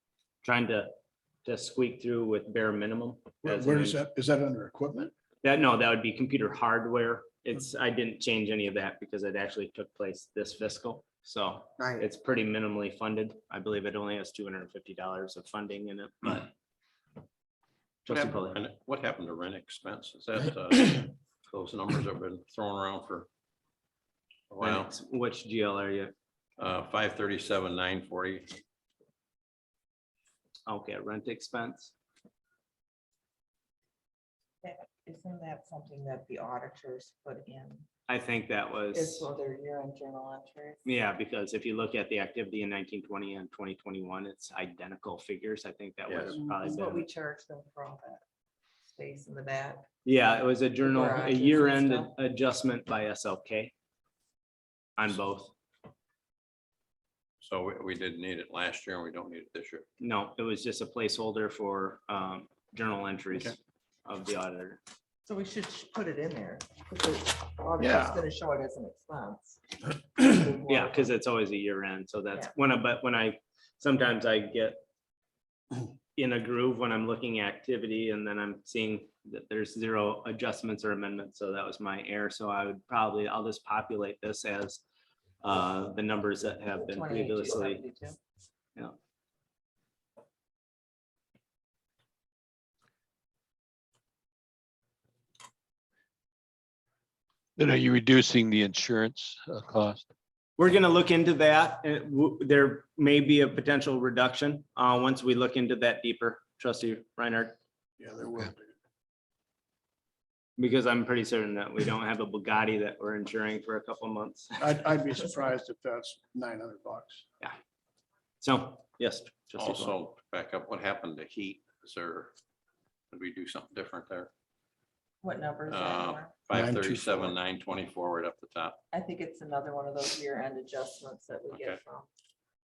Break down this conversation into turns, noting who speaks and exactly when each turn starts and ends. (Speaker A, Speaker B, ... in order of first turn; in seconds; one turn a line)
Speaker A: 0.4-0.9
Speaker A: 1.4-4.0
Speaker B: 3.4-5.1
Speaker A: 5.4-16.5
Speaker A: 18.1-18.6
Speaker C: 18.1-23.3
Speaker C: 24.5-24.9
Speaker A: 24.6-26.1
Speaker C: 26.6-28.6
Speaker A: 30.7-31.9
Speaker D: 34.6-37.9
Speaker A: 38.1-39.3
Speaker D: 38.9-40.8
Speaker A: 40.9-47.1
Speaker C: 46.1-46.4
Speaker D: 46.4-48.2
Speaker D: 48.9-49.9
Speaker A: 50.0-53.7
Speaker D: 50.8-52.1
Speaker A: 55.0-55.5
Speaker C: 57.4-59.9
Speaker A: 60.0-64.8
Speaker D: 65.3-69.6
Speaker B: 67.8-68.2
Speaker D: 70.2-71.1
Speaker A: 70.7-74.8
Speaker A: 76.2-84.8
Speaker A: 85.4-87.8
Speaker D: 86.7-88.2
Speaker E: 97.6-100.1
Speaker A: 100.6-107.6
Speaker B: 108.0-108.7
Speaker A: 110.6-114.7
Speaker B: 114.6-117.2
Speaker A: 118.4-119.9
Speaker C: 119.6-122.3
Speaker C: 123.1-124.3
Speaker D: 125.2-126.3
Speaker C: 125.7-128.8
Speaker B: 126.5-127.3
Speaker D: 128.9-132.1
Speaker C: 131.5-131.8